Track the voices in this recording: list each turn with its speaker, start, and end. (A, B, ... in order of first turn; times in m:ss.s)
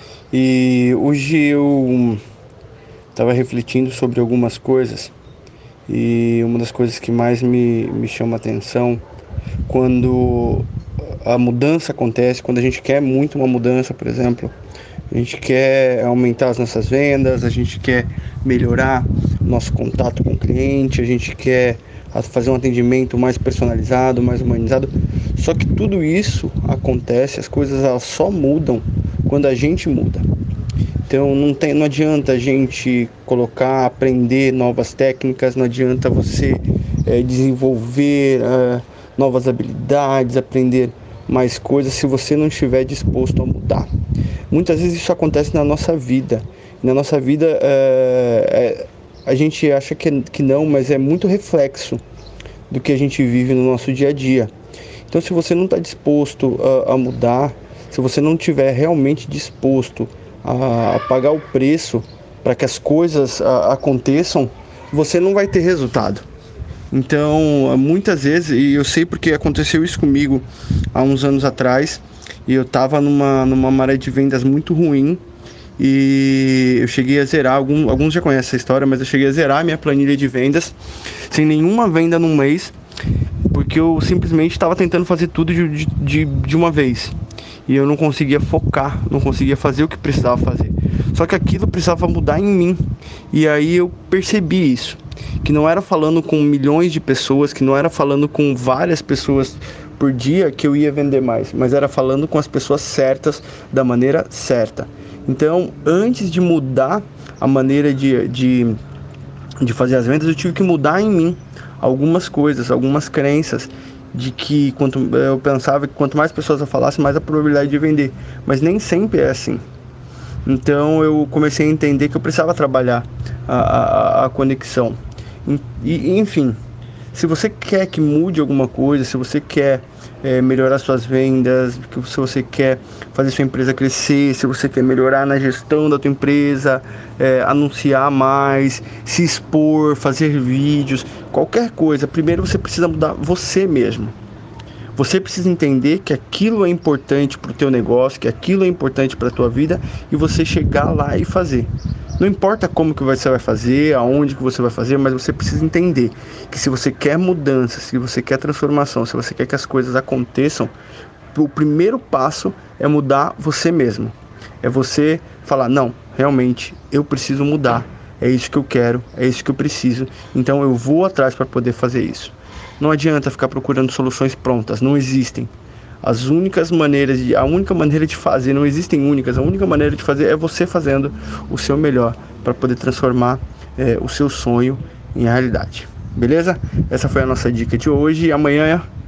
0:00.3-0:02.2 A
0:03.1-0:05.1 A
0:05.9-0:09.0 A
0:09.7-0:10.7 A
0:11.2-0:14.5 A
0:15.1-0:30.3 A
0:31.1-0:43.9 A
0:44.5-0:52.0 A
0:52.7-0:54.5 A
0:55.1-1:06.2 A
1:06.9-1:15.2 A
1:15.8-1:20.8 A
1:21.3-1:22.7 A
1:23.5-1:27.2 A
1:27.7-1:48.8 A
1:49.6-1:59.6 A
2:00.4-2:06.6 A
2:07.1-2:24.2 A
2:25.0-2:40.7 A
2:41.3-2:55.5 A
2:56.0-3:08.9 A